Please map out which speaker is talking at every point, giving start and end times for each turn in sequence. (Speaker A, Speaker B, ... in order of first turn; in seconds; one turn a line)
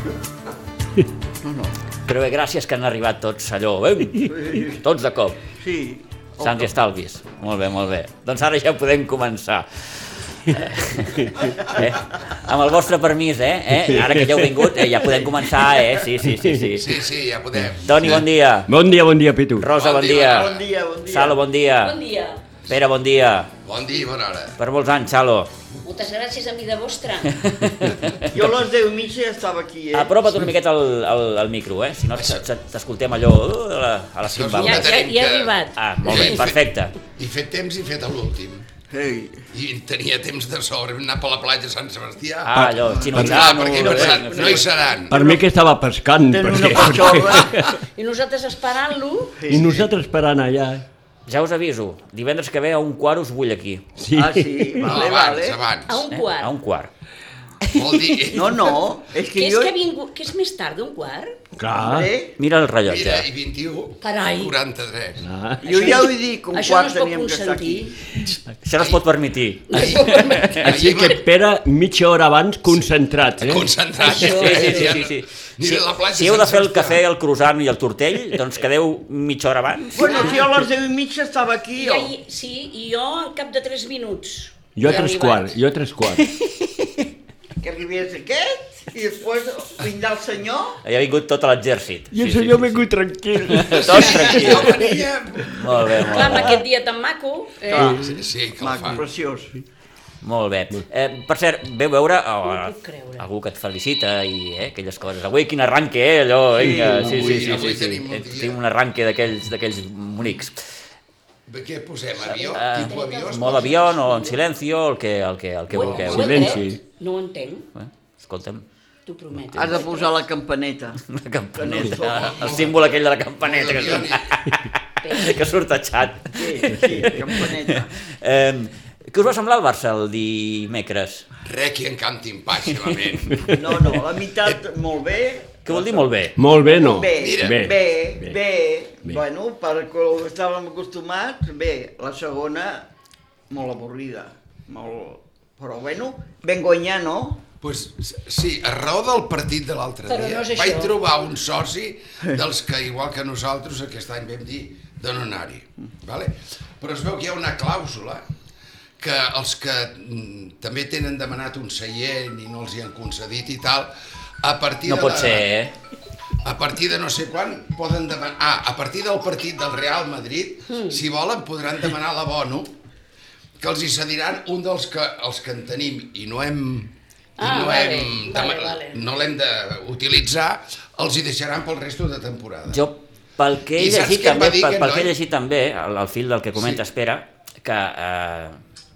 Speaker A: 1.4-1.7
Speaker B: 2.0-5.4
Speaker A: 4.3-4.8
Speaker A: 5.5-6.7
Speaker B: 6.4-16.9
Speaker C: 13.7-15.2
Speaker C: 16.2-16.8
Speaker D: 16.8-18.2
Speaker B: 17.8-18.7
Speaker C: 18.7-19.7
Speaker B: 19.6-20.5
Speaker D: 19.7-20.7
Speaker A: 20.4-21.4
Speaker B: 21.0-22.0
Speaker E: 21.8-22.4
Speaker B: 22.7-23.5
Speaker D: 23.6-24.6
Speaker B: 24.6-25.5
Speaker E: 25.8-27.9
Speaker B: 27.3-28.3
Speaker A: 28.3-30.5
Speaker B: 29.9-34.9
Speaker D: 32.1-32.5
Speaker D: 34.2-36.6
Speaker E: 34.6-36.4
Speaker B: 35.8-36.9
Speaker D: 37.1-38.6
Speaker A: 38.9-39.4
Speaker D: 39.5-42.5
Speaker B: 42.4-44.6
Speaker C: 42.5-43.6
Speaker A: 42.8-45.4
Speaker D: 43.1-45.3
Speaker C: 45.1-47.7
Speaker A: 46.3-47.6
Speaker E: 47.6-49.4
Speaker A: 49.4-49.8
Speaker C: 49.5-50.8
Speaker B: 51.2-53.8
Speaker C: 54.0-55.0
Speaker A: 54.1-55.6
Speaker D: 54.8-56.0
Speaker E: 55.9-56.5
Speaker B: 56.1-56.9
Speaker B: 57.7-58.3
Speaker D: 57.7-58.7
Speaker A: 58.3-59.7
Speaker E: 59.3-61.3
Speaker C: 61.6-62.1
Speaker A: 61.8-62.3
Speaker B: 62.4-63.3
Speaker D: 62.8-65.2
Speaker E: 64.0-64.5
Speaker C: 65.2-66.2
Speaker A: 65.6-67.9
Speaker E: 66.5-68.0
Speaker B: 68.6-70.7
Speaker E: 69.7-70.8
Speaker D: 69.7-71.2
Speaker C: 70.7-73.7
Speaker D: 73.4-77.0
Speaker E: 74.0-75.0
Speaker B: 74.0-80.3
Speaker A: 79.9-82.1
Speaker E: 80.0-80.5
Speaker E: 81.8-85.5
Speaker C: 84.8-86.3
Speaker A: 86.4-86.8
Speaker A: 87.6-90.8
Speaker B: 90.8-92.9
Speaker C: 92.1-94.7
Speaker B: 93.4-96.6
Speaker D: 93.7-96.0
Speaker E: 95.9-97.9
Speaker A: 97.7-99.5
Speaker C: 97.7-98.2
Speaker D: 97.9-99.1
Speaker B: 100.2-110.6
Speaker E: 102.4-103.2
Speaker A: 106.6-107.2
Speaker C: 106.6-107.8
Speaker D: 107.0-108.6
Speaker D: 111.5-114.1
Speaker B: 112.2-116.6
Speaker E: 112.8-114.4
Speaker E: 115.7-117.7
Speaker D: 115.7-116.4
Speaker C: 115.9-116.8
Speaker B: 117.8-118.6
Speaker E: 119.0-120.2
Speaker B: 119.4-119.8
Speaker A: 119.5-121.0
Speaker B: 121.0-131.3
Speaker A: 121.5-122.7
Speaker D: 121.9-124.3
Speaker E: 125.0-125.4
Speaker A: 126.3-127.9
Speaker D: 131.4-133.6
Speaker B: 132.7-133.3
Speaker A: 133.5-136.1
Speaker B: 135.6-136.4
Speaker C: 136.3-138.4
Speaker A: 136.6-142.9
Speaker D: 137.2-137.7
Speaker A: 143.5-147.4
Speaker D: 147.6-158.2
Speaker E: 150.1-150.9
Speaker D: 159.0-163.9
Speaker D: 164.4-165.5
Speaker B: 164.8-165.7
Speaker D: 166.4-172.7
Speaker E: 170.7-171.0
Speaker D: 173.6-182.8
Speaker E: 177.4-179.0
Speaker B: 182.7-188.6
Speaker D: 183.8-185.1
Speaker D: 186.5-186.8